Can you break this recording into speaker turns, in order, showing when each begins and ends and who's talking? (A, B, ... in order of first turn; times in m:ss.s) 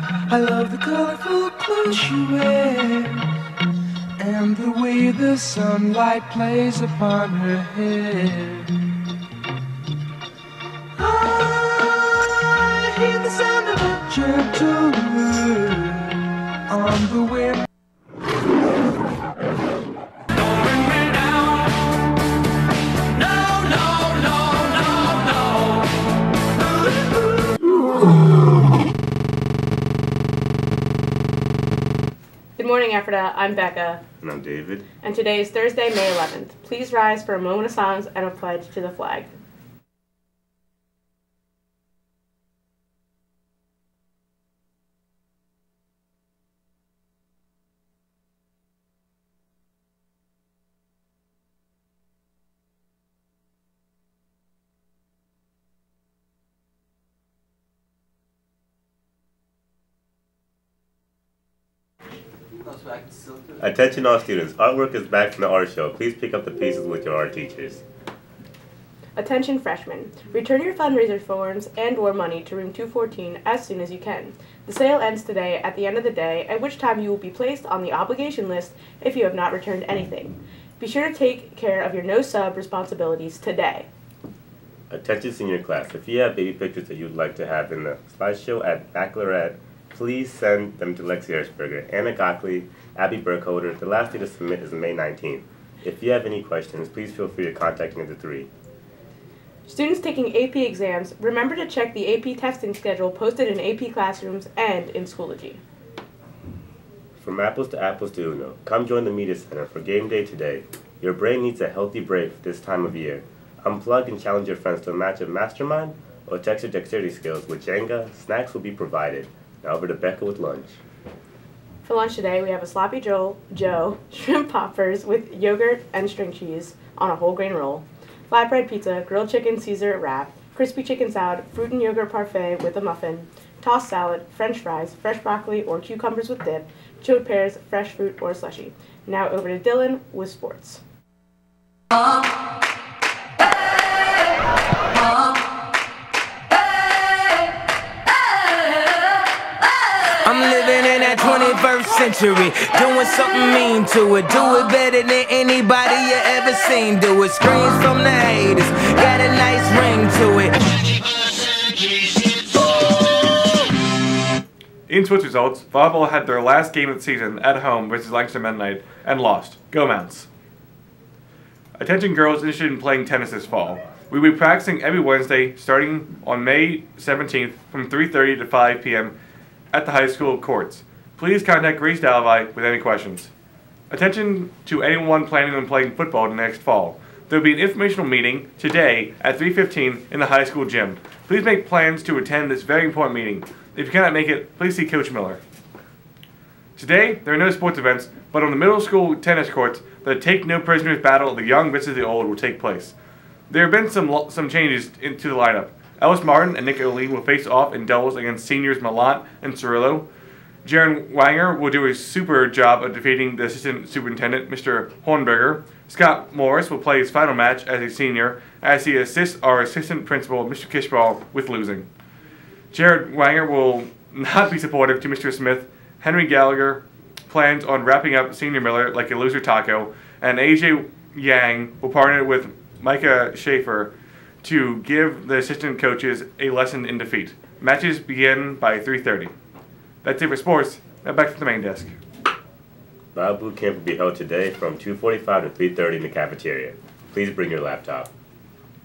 0:00.3-0:03.3 A
0:04.2-0:08.8 A
0:11.0-0:17.6 A
0:20.7-0:21.2 B
0:23.4-0:25.1 B
0:32.6-0:34.0 C
0:34.2-0:34.8 D
0:35.0-0:39.3 C
1:03.6-1:07.8 D
1:09.2-1:23.9 C
1:24.9-1:38.5 D
1:39.6-1:45.6 C
1:47.2-2:00.8 D
2:01.8-2:20.8 C
2:30.2-2:40.6 B
2:44.9-2:50.3 E
2:51.8-2:59.1 E
2:59.7-3:03.3 E
3:03.9-3:15.4 E
3:16.8-3:22.9 E
3:23.5-3:30.0 E
3:30.6-3:41.9 E
3:42.7-3:59.3 E
4:00.0-4:01.9 E
4:03.1-4:08.1 D